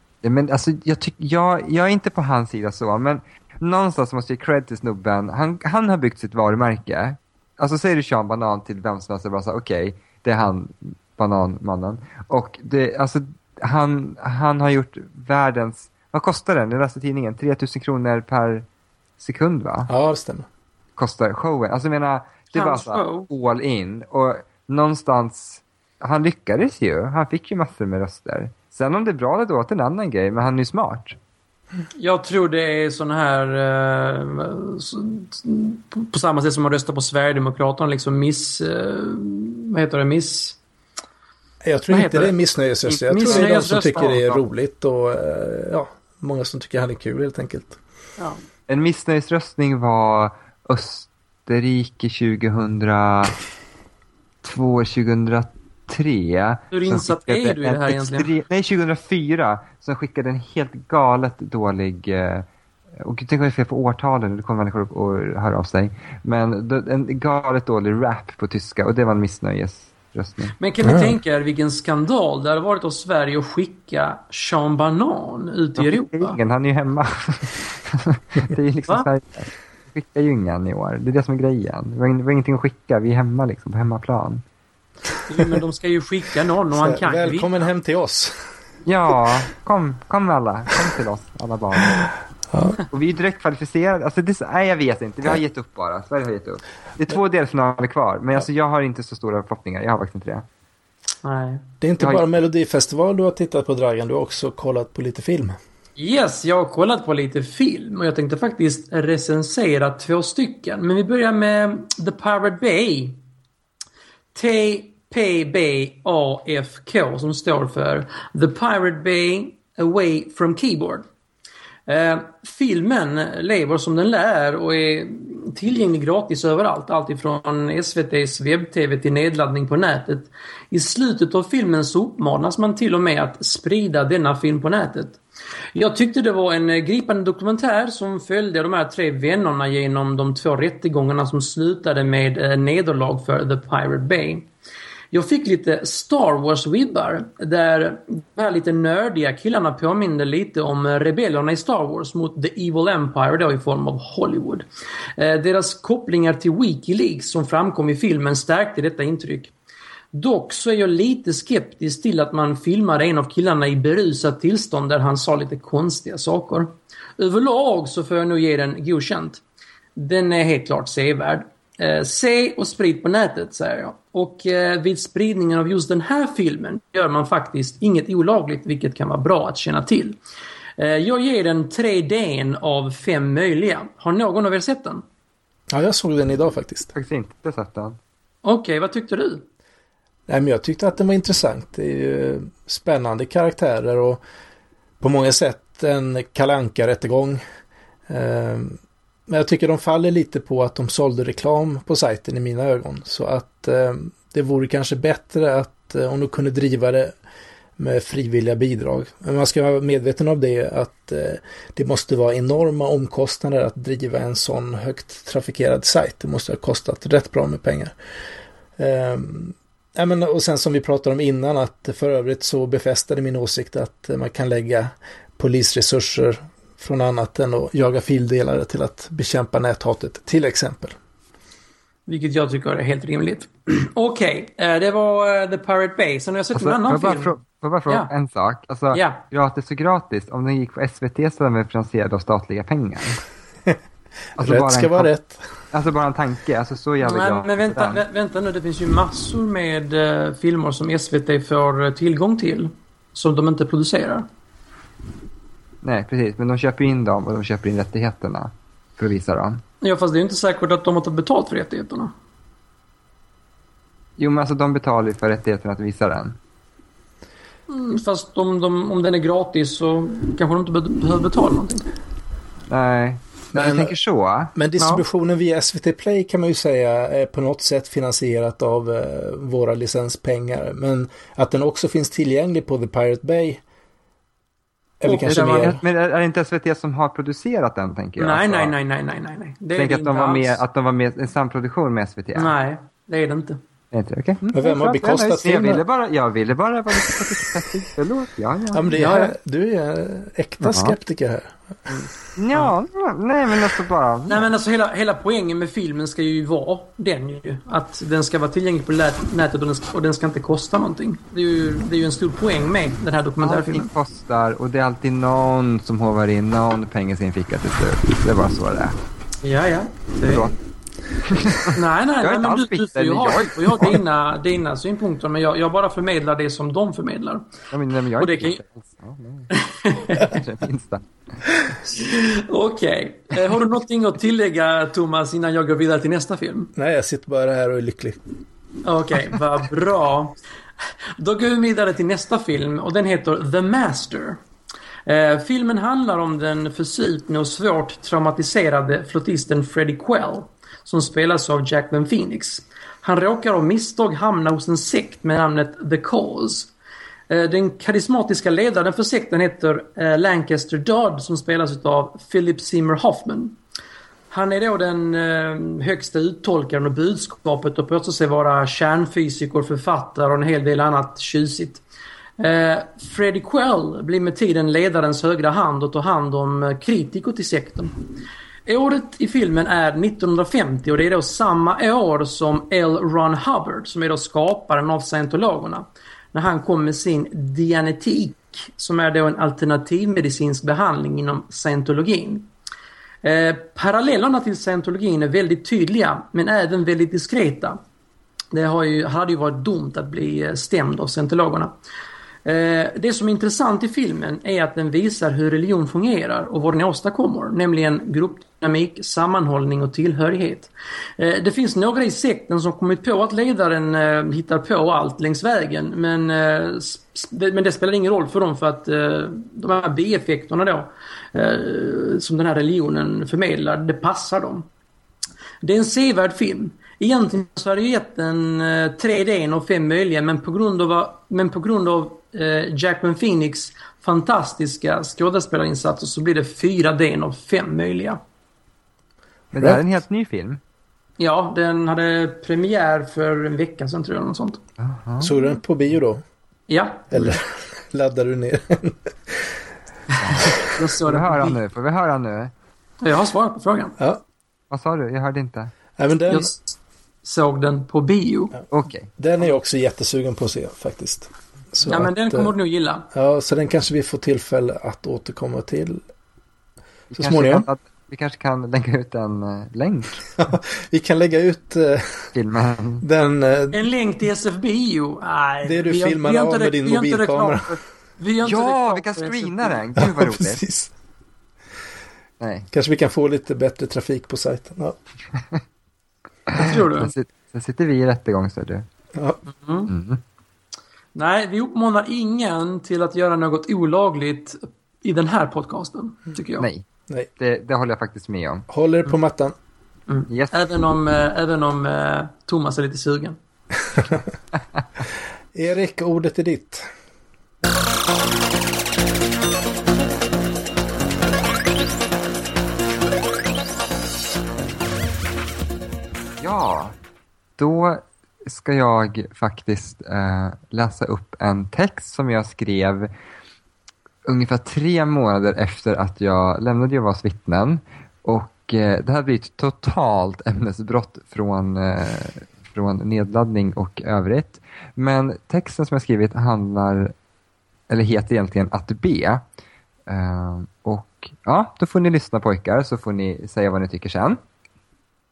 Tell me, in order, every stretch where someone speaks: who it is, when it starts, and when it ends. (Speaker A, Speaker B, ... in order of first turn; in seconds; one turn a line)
Speaker A: 0.2-18.7
Speaker A: 19.2-19.9
Speaker B: 19.9-20.5
Speaker A: 21.0-31.2
Speaker C: 22.5-23.3
Speaker C: 32.0-40.6
Speaker B: 41.6-47.8
Speaker A: 41.9-42.3
Speaker A: 42.8-44.4
Speaker C: 43.1-44.2
Speaker A: 48.7-53.3
Speaker A: 54.4-62.5
Speaker C: 56.7-58.3
Speaker A: 63.0-70.5
Speaker C: 70.6-76.4
Speaker B: 70.8-71.2
Speaker A: 75.8-84.4
Speaker C: 85.3-87.7
Speaker B: 86.7-88.5
Speaker A: 88.9-92.1
Speaker B: 92.5-92.8
Speaker A: 92.9-100.5
Speaker C: 101.2-101.6
Speaker B: 101.8-105.6
Speaker A: 102.0-102.3
Speaker C: 106.0-113.2
Speaker C: 114.3-121.0
Speaker C: 121.9-135.2
Speaker C: 135.8-144.5
Speaker C: 145.1-154.7
Speaker C: 155.2-159.5
Speaker C: 160.1-169.4
Speaker C: 170.0-180.2
Speaker C: 180.8-185.0
Speaker B: 185.7-186.9
Speaker A: 186.9-188.0
Speaker C: 188.4-189.4
Speaker B: 190.3-194.2
Speaker B: 195.0-197.4
Speaker B: 198.1-207.2
Speaker B: 207.8-217.9
Speaker B: 218.8-231.0
Speaker C: 232.1-238.1
Speaker A: 236.6-243.2
Speaker C: 238.9-239.2
Speaker A: 244.4-245.1
Speaker B: 244.4-245.5
Speaker A: 245.7-248.0
Speaker C: 247.0-254.3
Speaker A: 255.8-259.6
Speaker C: 259.8-262.1
Speaker A: 264.2-266.4
Speaker C: 267.7-271.9
Speaker A: 272.7-275.0
Speaker B: 273.5-273.9
Speaker B: 274.6-283.6
Speaker B: 285.0-285.8
Speaker C: 285.1-285.8
Speaker A: 285.2-288.7
Speaker C: 288.2-290.6
Speaker A: 289.8-292.6
Speaker C: 292.4-293.6
Speaker A: 293.9-298.9
Speaker C: 294.4-294.8
Speaker B: 294.5-295.8
Speaker B: 298.7-301.6
Speaker C: 298.9-299.4
Speaker A: 300.6-300.9
Speaker A: 302.4-304.5
Speaker C: 304.3-313.9
Speaker A: 313.4-319.0
Speaker C: 319.4-320.5
Speaker A: 320.2-320.5
Speaker A: 321.2-324.0
Speaker C: 321.7-327.5
Speaker A: 327.7-329.5
Speaker C: 328.2-328.6
Speaker C: 329.5-330.3
Speaker A: 330.1-331.1
Speaker C: 331.9-336.7
Speaker B: 336.8-338.2
Speaker C: 338.8-340.4
Speaker C: 341.2-344.4
Speaker C: 345.1-356.7
Speaker C: 357.3-363.6
Speaker C: 364.3-371.8
Speaker C: 372.4-378.0
Speaker C: 378.7-392.5
Speaker C: 393.2-397.8
Speaker C: 398.5-401.7
Speaker C: 402.4-424.7
Speaker C: 425.6-438.2
Speaker A: 439.5-440.6
Speaker C: 441.2-444.6
Speaker A: 444.8-445.3
Speaker B: 445.2-446.2
Speaker C: 446.7-447.4
Speaker B: 447.1-449.5
Speaker A: 450.2-452.5
Speaker C: 450.4-451.6
Speaker C: 453.0-454.0
Speaker B: 454.0-454.2
Speaker A: 454.7-455.7
Speaker B: 456.0-456.5
Speaker C: 456.3-458.6
Speaker A: 458.7-459.1
Speaker B: 459.2-462.5
Speaker C: 461.9-463.1
Speaker B: 463.1-466.0
Speaker A: 467.1-470.2
Speaker B: 467.1-467.7
Speaker B: 470.4-472.3
Speaker A: 472.4-473.0
Speaker B: 473.0-473.8
Speaker C: 473.7-479.7
Speaker B: 475.6-477.8
Speaker A: 478.4-480.6
Speaker B: 480.0-480.9
Speaker A: 482.4-482.7
Speaker B: 482.7-485.0
Speaker A: 486.5-488.9
Speaker C: 486.6-487.1
Speaker B: 489.2-489.4
Speaker C: 489.6-489.9
Speaker A: 489.9-490.2
Speaker C: 491.1-496.7
Speaker A: 496.6-498.7
Speaker B: 498.7-499.6
Speaker C: 500.1-503.4
Speaker A: 500.3-500.5
Speaker B: 505.5-506.9
Speaker A: 516.4-516.9
Speaker A: 517.6-523.1
Speaker A: 524.3-537.1
Speaker A: 537.9-539.4
Speaker A: 540.1-544.4